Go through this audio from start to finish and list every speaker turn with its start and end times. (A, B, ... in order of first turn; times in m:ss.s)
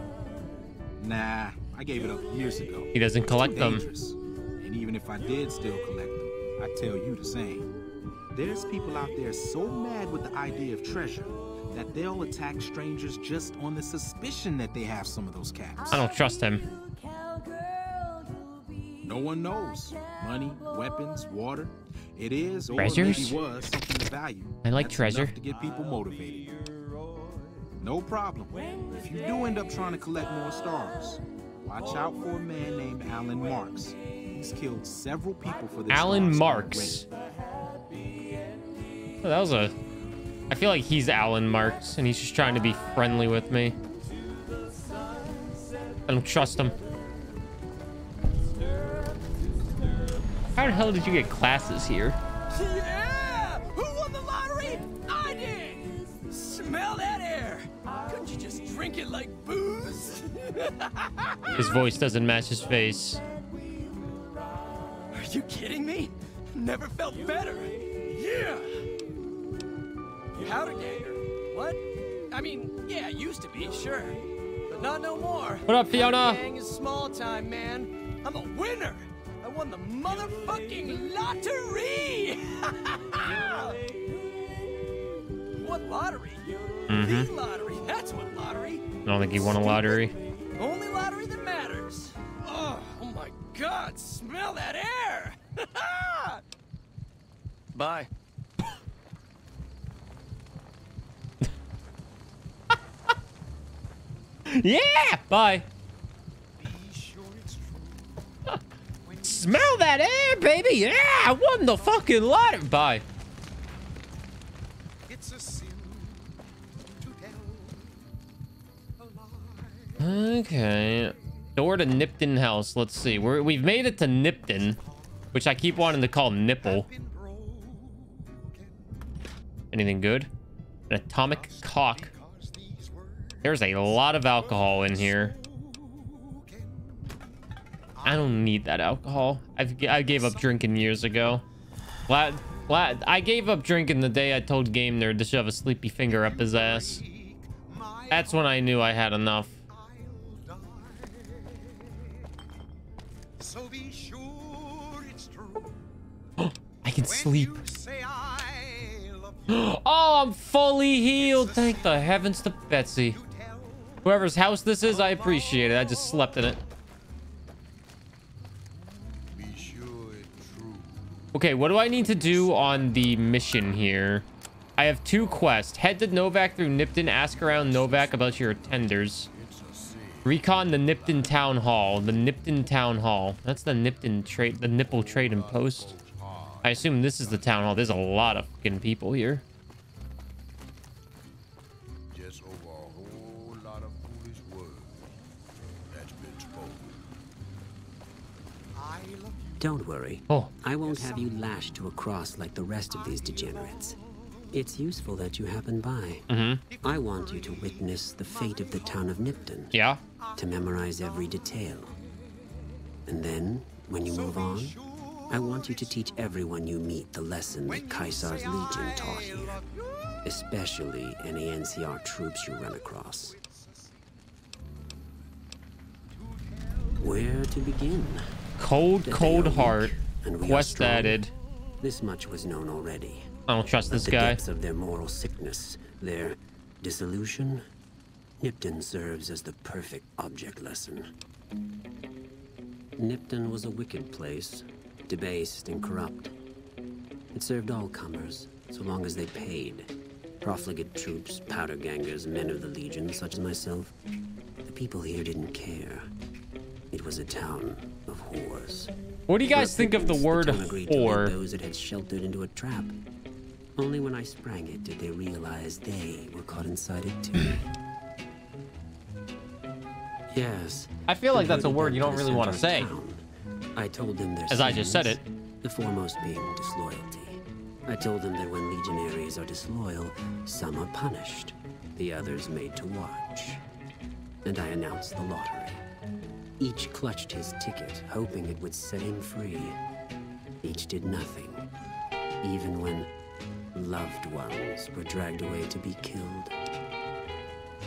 0:01.0-0:07.7 A
0:02.9-0:03.8 B
0:08.3-0:16.1 A
0:15.9-0:16.6 B
0:19.0-0:26.5 A
0:22.8-0:23.4 B
0:24.6-0:25.3 B
0:27.8-0:37.1 A
0:35.9-0:37.0 B
0:39.2-0:39.7 B
0:40.5-0:43.8 B
0:46.1-0:46.8 B
0:50.6-0:52.2 B
0:52.5-1:01.8 C
1:01.5-1:03.2 B
1:05.1-1:08.8 C
1:10.4-1:23.8 C
1:15.7-1:16.4 B
1:25.5-1:28.9 C
1:26.9-1:27.3 B
1:29.0-1:30.1 B
1:30.6-1:36.4 C
1:37.7-1:38.1 C
1:44.5-1:45.6 B
1:46.6-1:48.1 D
1:49.0-1:49.8 D
1:49.2-1:53.0 B
1:55.1-1:56.4 D
1:57.0-1:58.1 D
1:59.0-2:00.3 D
2:00.0-2:04.8 B
2:04.4-2:06.0 D
2:05.3-2:06.9 B
2:06.6-2:09.0 D
2:09.7-2:10.3 B
2:10.9-2:12.1 B
2:11.2-2:17.2 D
2:13.4-2:15.4 B
2:18.0-2:18.4 D
2:18.0-2:21.4 B
2:19.9-2:20.6 D
2:22.1-2:27.0 B
2:26.1-2:28.8 D
2:28.1-2:29.5 B
2:29.7-2:32.1 D
2:33.4-2:35.7 D
2:36.4-2:37.5 B
2:37.0-2:39.8 D
2:39.5-2:43.2 B
2:41.1-2:42.5 D
2:43.1-2:44.3 D
2:44.0-2:46.6 B
2:44.8-2:46.9 D
2:49.1-2:51.2 D
2:51.3-2:54.2 B
2:52.0-2:53.6 D
2:54.8-2:59.3 B
2:57.5-2:58.5 D
2:59.3-3:01.5 D
3:00.2-3:05.9 B
3:05.0-3:07.8 D
3:06.6-3:09.4 B
3:12.1-3:15.1 D
3:15.9-3:17.0 D
3:18.7-3:19.8 D
3:19.6-3:24.0 E
3:20.7-3:21.5 D
3:22.9-3:24.0 D
3:24.5-3:26.2 E
3:26.3-3:26.6 B
3:26.7-3:29.5 D
3:26.8-3:29.7 E
3:29.7-3:30.0 B
3:30.2-3:31.8 D
3:30.4-3:31.9 E
3:33.1-3:34.8 E
3:33.9-3:36.3 D
3:35.3-3:39.6 E
3:37.6-3:40.2 D
3:40.2-3:43.4 E
3:43.2-3:44.0 D
3:46.2-3:47.3 D
3:47.0-3:48.2 E
3:48.6-3:51.3 B
3:49.0-3:51.2 E
3:51.8-3:53.3 E
3:53.5-3:54.4 B
3:53.9-3:57.6 E
3:58.4-4:01.1 E
4:03.0-4:06.3 E
4:07.3-4:13.9 E
4:14.6-4:16.1 E
4:16.9-4:18.9 E
4:19.3-4:21.3 B
4:19.4-4:22.9 E
4:23.8-4:27.6 E
4:30.3-4:33.2 E
4:31.1-4:32.9 B
4:33.7-4:43.6 E
4:34.5-4:35.2 B
4:44.4-4:45.8 E
4:46.6-4:49.8 E
4:50.6-4:51.6 E
4:52.4-4:53.1 E
4:53.7-4:56.5 E